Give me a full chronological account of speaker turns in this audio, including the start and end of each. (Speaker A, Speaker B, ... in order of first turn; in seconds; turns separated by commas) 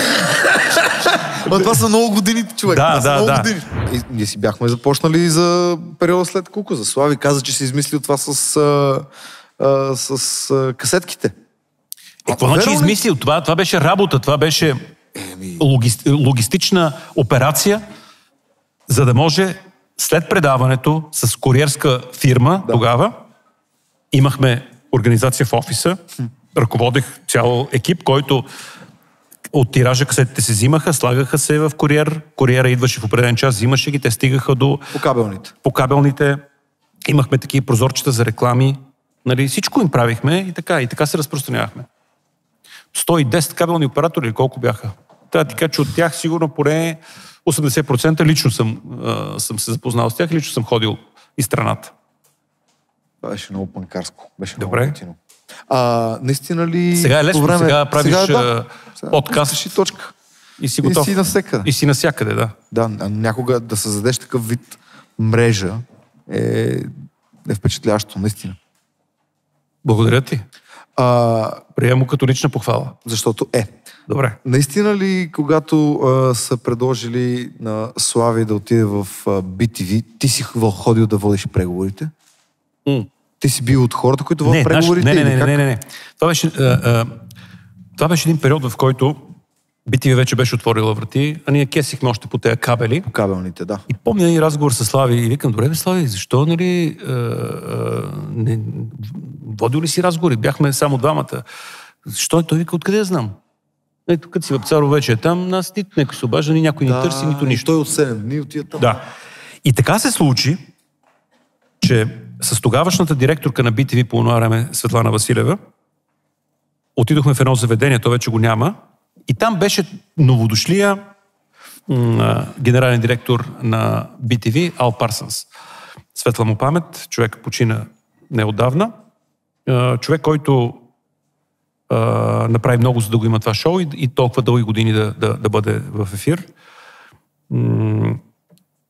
Speaker A: 0.1-9.1, Speaker B: 1.3-1.8, Speaker B: 2.6-3.5, Speaker A: 9.6-11.3, Speaker B: 12.2-14.8, Speaker A: 12.3-13.0, Speaker A: 15.1-15.6, Speaker B: 15.6-17.8, Speaker B: 18.9-23.1, Speaker B: 24.1-26.0, Speaker B: 26.5-28.4, Speaker B: 29.5-34.9, Speaker A: 34.9-35.5, Speaker B: 35.6-36.4, Speaker B: 37.0-41.9, Speaker B: 42.9-51.9, Speaker A: 53.2-60.1, Speaker B: 54.6-55.0, Speaker B: 56.9-59.6, Speaker B: 60.6-62.5, Speaker A: 60.8-61.7, Speaker A: 62.7-66.9, Speaker A: 67.5-68.6, Speaker B: 69.8-70.4, Speaker A: 71.0-71.6, Speaker B: 71.7-73.0, Speaker A: 73.0-73.8, Speaker B: 74.1-74.4, Speaker A: 74.4-82.1, Speaker A: 83.4-85.6, Speaker B: 84.4-87.2, Speaker B: 88.0-89.3, Speaker B: 89.8-93.1, Speaker A: 93.1-93.8, Speaker B: 93.9-101.4, Speaker B: 102.0-103.3, Speaker B: 104.1-107.7, Speaker A: 106.8-109.0, Speaker B: 109.6-110.6, Speaker B: 111.8-115.6, Speaker B: 117.0-118.8, Speaker B: 119.3-121.0, Speaker B: 121.9-125.5, Speaker B: 126.1-128.9, Speaker B: 129.7-130.8, Speaker B: 131.9-136.5, Speaker B: 137.5-138.2